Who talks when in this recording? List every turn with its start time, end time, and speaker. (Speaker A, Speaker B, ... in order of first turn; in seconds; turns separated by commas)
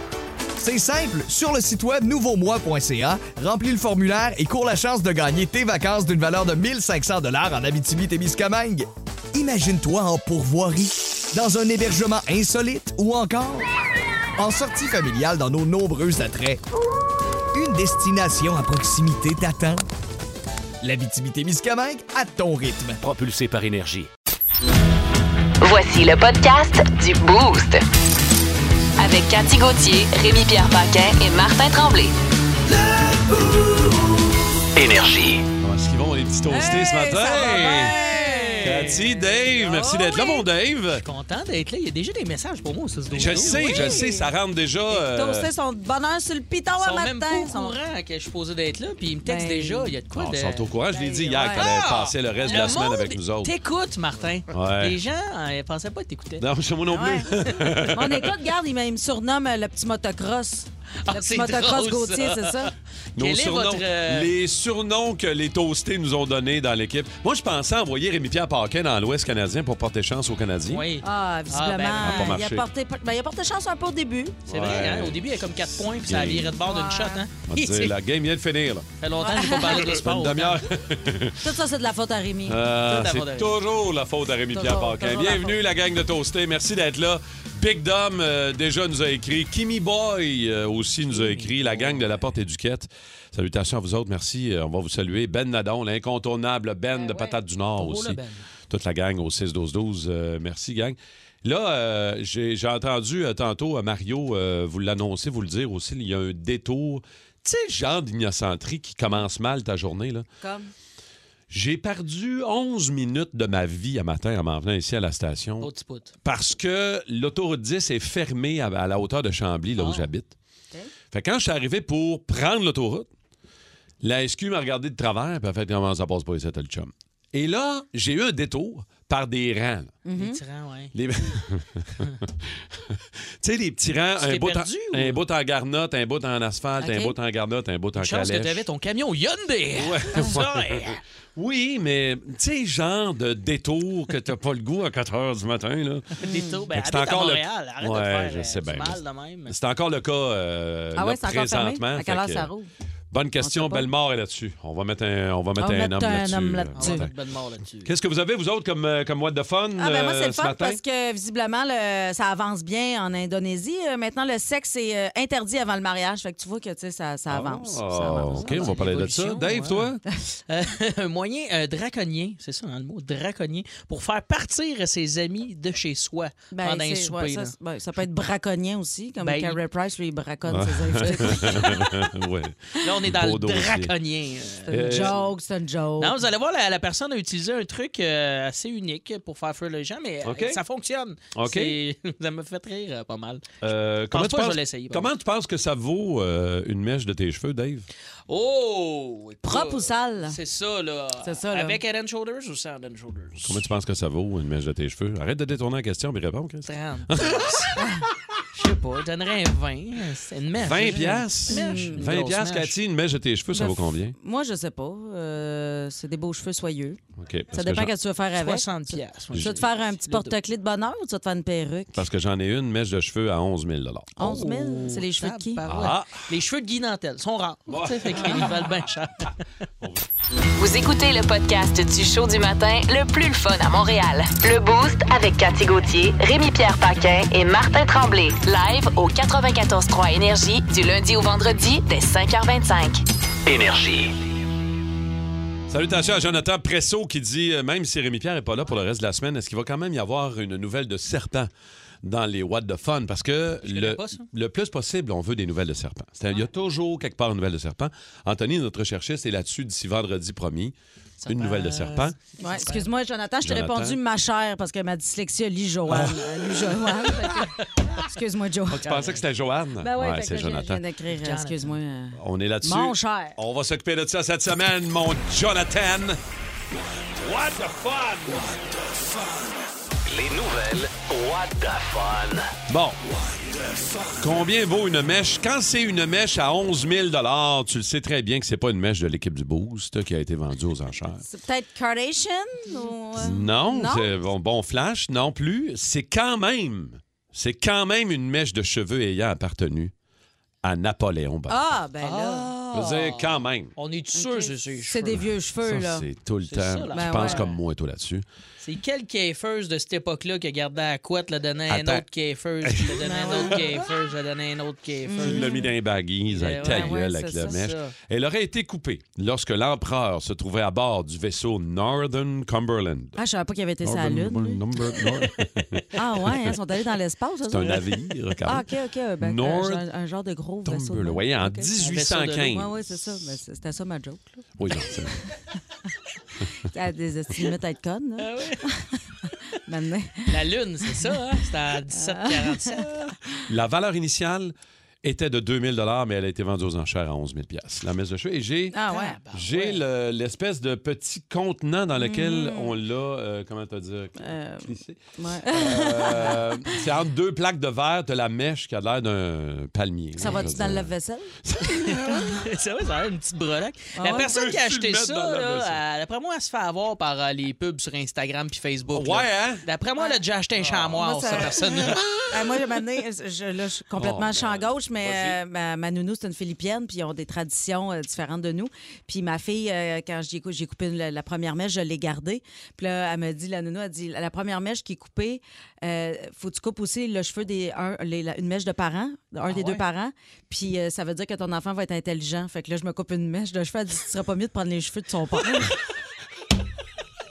Speaker A: 0.6-13.7, Speaker A: 14.4-16.6, Speaker A: 17.5-19.8, Speaker A: 20.8-23.0, Speaker B: 23.0-24.1, Speaker C: 25.6-27.8, Speaker C: 29.0-32.1, Speaker B: 34.8-35.5, Speaker D: 35.6-38.0, Speaker E: 36.5-40.5, Speaker F: 37.3-39.1, Speaker D: 38.6-41.0, Speaker F: 40.9-43.9, Speaker D: 43.1-45.5, Speaker E: 43.3-44.3, Speaker E: 44.9-47.8, Speaker F: 46.8-50.7, Speaker E: 49.2-50.0, Speaker D: 50.1-53.5, Speaker E: 50.9-51.7, Speaker F: 51.4-56.4, Speaker E: 52.5-52.7, Speaker D: 54.5-55.0, Speaker D: 56.4-58.3, Speaker E: 56.9-57.3, Speaker E: 57.9-62.7, Speaker F: 61.0-64.3, Speaker D: 63.2-70.9, Speaker F: 70.7-72.4, Speaker E: 71.0-74.4, Speaker D: 72.0-72.7, Speaker D: 74.5-76.6, Speaker F: 74.5-77.9, Speaker E: 76.6-77.2, Speaker D: 77.5-78.9, Speaker F: 79.0-80.6, Speaker E: 79.2-79.8, Speaker D: 79.7-81.5, Speaker E: 81.4-82.6, Speaker D: 82.5-110.2, Speaker F: 82.9-83.5, Speaker E: 84.5-85.6, Speaker F: 91.1-92.2, Speaker F: 97.1-98.5, Speaker E: 110.4-110.7, Speaker D: 111.5-115.7, Speaker F: 115.6-116.1, Speaker D: 116.2-120.3, Speaker F: 119.8-120.1, Speaker D: 121.1-123.1, Speaker D: 124.0-129.9, Speaker E: 130.1-130.4, Speaker F: 130.2-130.9, Speaker D: 130.9-138.7, Speaker F: 134.2-135.2, Speaker E: 136.8-137.2, Speaker F: 137.9-141.0, Speaker D: 139.8-152.5, Speaker F: 146.2-149.6, Speaker E: 146.2-146.5, Speaker E: 150.9-152.7, Speaker D: 153.1-157.1, Speaker E: 153.4-153.9, Speaker E: 155.6-157.1, Speaker F: 156.8-157.9, Speaker D: 157.8-160.8, Speaker E: 159.8-168.8, Speaker D: 167.3-170.0, Speaker F: 168.1-169.9, Speaker F: 170.5-177.5, Speaker E: 176.5-182.1, Speaker F: 179.2-179.6, Speaker D: 180.5-183.9, Speaker F: 181.1-181.6, Speaker F: 182.8-185.2, Speaker E: 184.7-186.2, Speaker D: 184.7-185.3, Speaker F: 186.0-193.6, Speaker D: 190.2-190.6, Speaker D: 191.3-191.8, Speaker D: 193.6-197.9, Speaker F: 194.1-195.1, Speaker F: 198.3-203.5, Speaker E: 199.4-200.4, Speaker E: 201.2-201.8, Speaker D: 203.4-207.7, Speaker F: 206.7-207.8, Speaker E: 207.8-208.0, Speaker F: 208.5-212.8, Speaker D: 210.6-214.2, Speaker E: 211.5-212.0, Speaker E: 213.5-217.0, Speaker D: 217.2-217.9, Speaker E: 217.5-222.0, Speaker F: 218.4-220.3, Speaker D: 219.3-219.6, Speaker D: 221.9-224.1, Speaker E: 224.2-225.6, Speaker F: 224.2-229.3, Speaker D: 225.7-226.2, Speaker D: 227.7-228.6, Speaker E: 228.2-228.5, Speaker D: 229.8-230.1, Speaker C: 230.6-243.0, Speaker B: 243.5-244.1, Speaker D: 245.7-251.5, Speaker D: 252.0-260.7, Speaker F: 253.6-254.3, Speaker F: 261.2-262.9, Speaker D: 261.2-262.2, Speaker E: 262.4-269.0, Speaker D: 263.4-264.0, Speaker D: 265.9-266.7, Speaker D: 268.7-270.8, Speaker F: 268.9-269.2, Speaker E: 269.8-273.4, Speaker F: 271.1-271.8, Speaker D: 272.2-276.2, Speaker D: 277.2-278.7, Speaker B: 280.1-282.5, Speaker D: 282.7-283.0, Speaker D: 284.2-291.2, Speaker E: 291.2-294.1, Speaker D: 293.2-299.9, Speaker D: 300.6-301.7, Speaker E: 301.5-302.5, Speaker F: 302.0-305.3, Speaker D: 302.7-303.7, Speaker E: 304.1-306.1, Speaker D: 305.6-308.2, Speaker F: 306.5-307.6, Speaker E: 306.9-307.5, Speaker F: 308.6-315.7, Speaker D: 311.7-312.1, Speaker D: 312.6-313.0, Speaker E: 313.0-313.8, Speaker E: 315.1-315.7, Speaker D: 315.2-323.2, Speaker F: 316.3-317.9, Speaker E: 316.6-317.6, Speaker E: 323.2-325.0, Speaker D: 323.8-326.5, Speaker E: 325.9-327.8, Speaker D: 327.5-328.7, Speaker E: 328.4-331.7, Speaker D: 329.2-329.8, Speaker D: 330.6-332.8, Speaker F: 331.8-332.6, Speaker E: 332.5-334.4, Speaker D: 334.6-335.2, Speaker E: 336.7-340.3, Speaker F: 338.2-338.7, Speaker F: 340.3-343.2, Speaker E: 340.9-341.1, Speaker E: 341.9-342.8, Speaker D: 343.5-348.8, Speaker E: 348.7-349.2, Speaker F: 348.9-349.8, Speaker D: 349.3-360.9, Speaker E: 352.0-352.8, Speaker E: 354.2-356.8, Speaker E: 360.2-361.3, Speaker D: 361.5-362.4, Speaker F: 361.9-372.0, Speaker E: 364.0-364.3, Speaker D: 364.1-365.8, Speaker D: 368.9-369.7, Speaker D: 370.6-371.3, Speaker E: 371.0-371.6, Speaker E: 372.3-395.8, Speaker D: 374.0-375.4, Speaker F: 389.5-389.8